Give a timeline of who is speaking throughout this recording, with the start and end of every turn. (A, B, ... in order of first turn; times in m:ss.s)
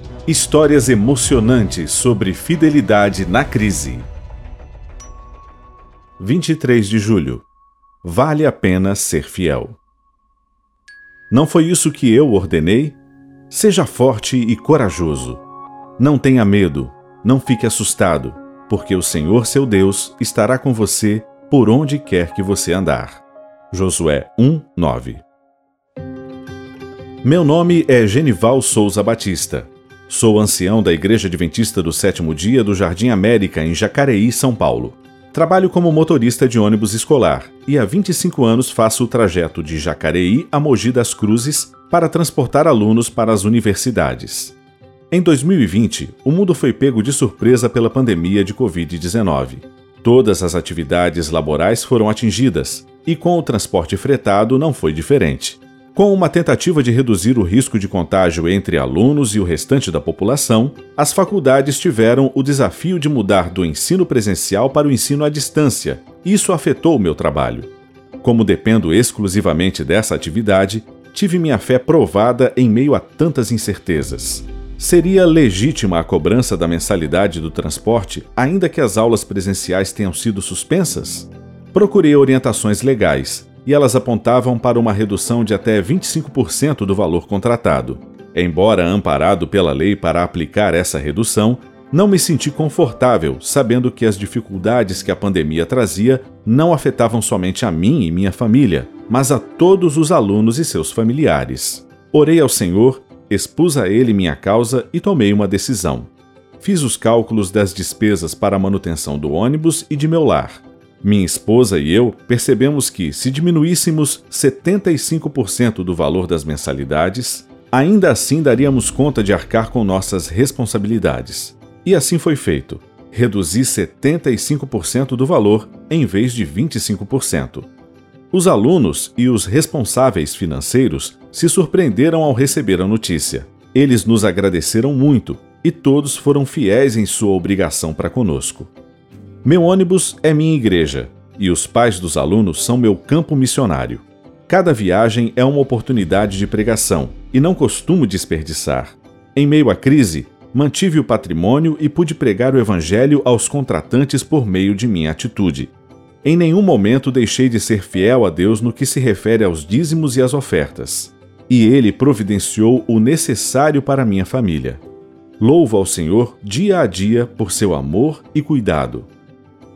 0:00.2-0:04.1 A
0:06.2-0:07.4 A
0:08.0-0:09.8 A
0:11.3-0:13.0 A
0:13.5-0:15.4 A
0:16.0-0:25.2 A
0:27.2-0:44.6 A
0:45.1-1:07.7 A
1:08.2-2:07.7 A
2:08.3-2:18.7 A
2:19.4-2:35.7 A
2:36.2-2:44.8 A
2:45.4-2:49.1 A